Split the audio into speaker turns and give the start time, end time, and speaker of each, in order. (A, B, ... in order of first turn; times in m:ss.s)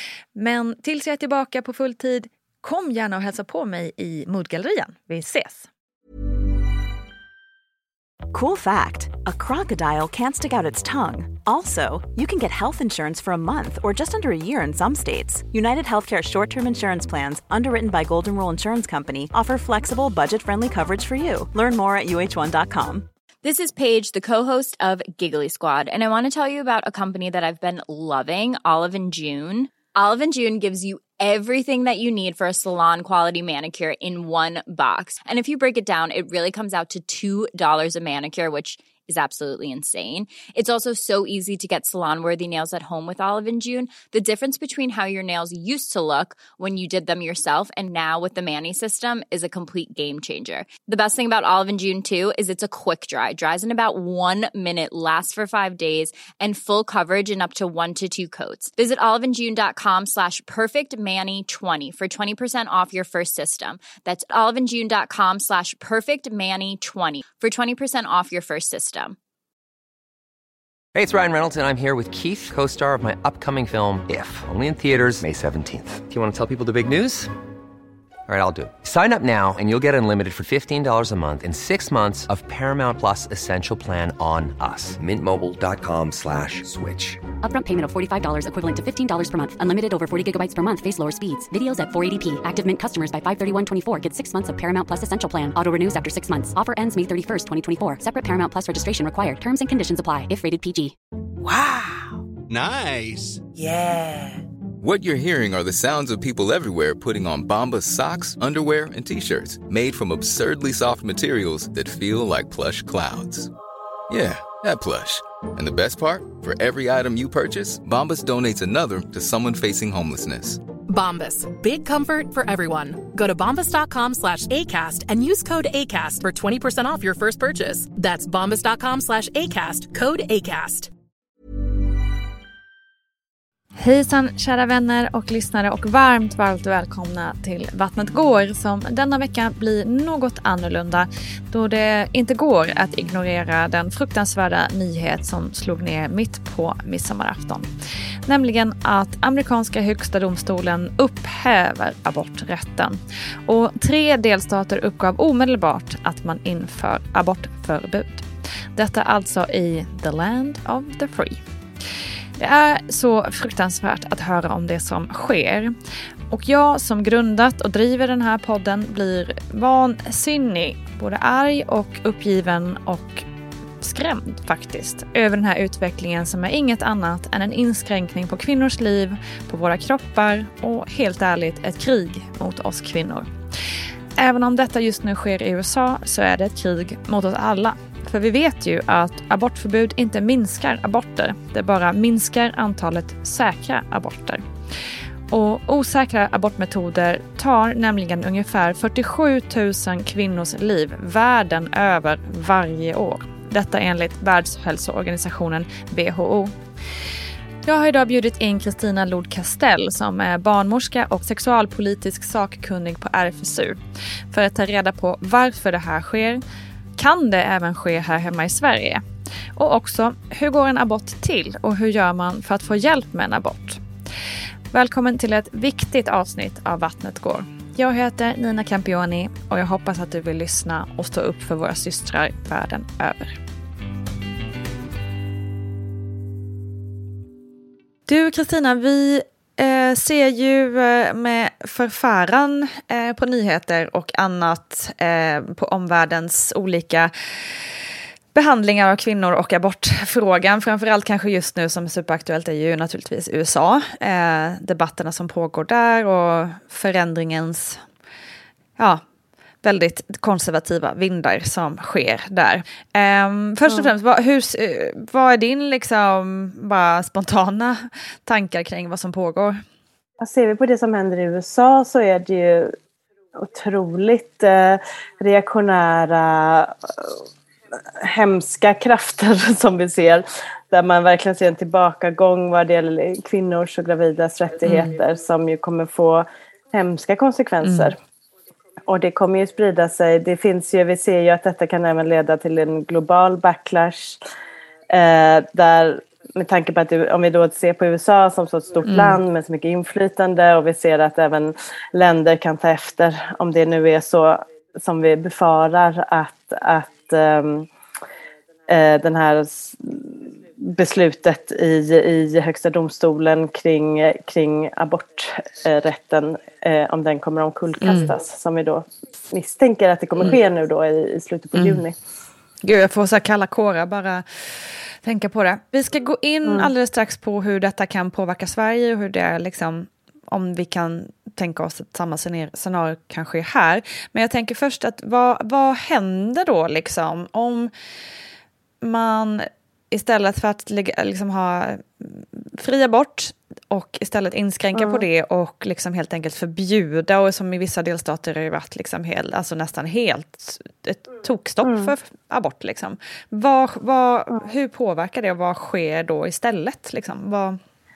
0:00.4-0:05.7 A
0:08.3-0:23.1 B
0:23.4-1:09.2 C
1:11.0-1:17.3 D
1:18.3-1:27.2 D
1:27.4-1:41.0 E
1:42.6-1:42.9 F
1:44.8-1:53.5 F
1:54.1-2:00.6 F
2:00.9-2:10.9 G
2:13.8-2:27.7 A
2:28.3-2:41.4 A
2:42.4-2:45.7 A
2:46.3-2:53.2 A
2:53.8-3:03.3 A
3:04.2-3:14.4 A
3:15.3-3:26.5 A
3:27.6-3:33.8 A
3:34.3-3:36.4 A
3:37.0-3:39.0 A
3:39.6-3:43.8 A
3:44.7-3:53.4 A
3:58.1-4:07.1 A
4:08.3-4:17.8 A
4:18.8-4:19.0 A
4:19.6-4:29.6 A
4:30.2-4:32.8 H
4:33.4-4:48.0 H
4:44.6-4:44.9 A
4:47.6-4:47.9 A
4:48.8-4:54.2 H
4:54.9-5:07.7 H
4:58.9-4:59.2 A
5:08.7-5:22.0 H
5:17.8-5:18.1 A
5:21.5-5:21.8 A
5:22.6-5:37.7 A
5:26.4-5:26.7 H
5:38.8-5:57.6 A
5:44.7-5:45.1 H
5:51.6-5:51.9 H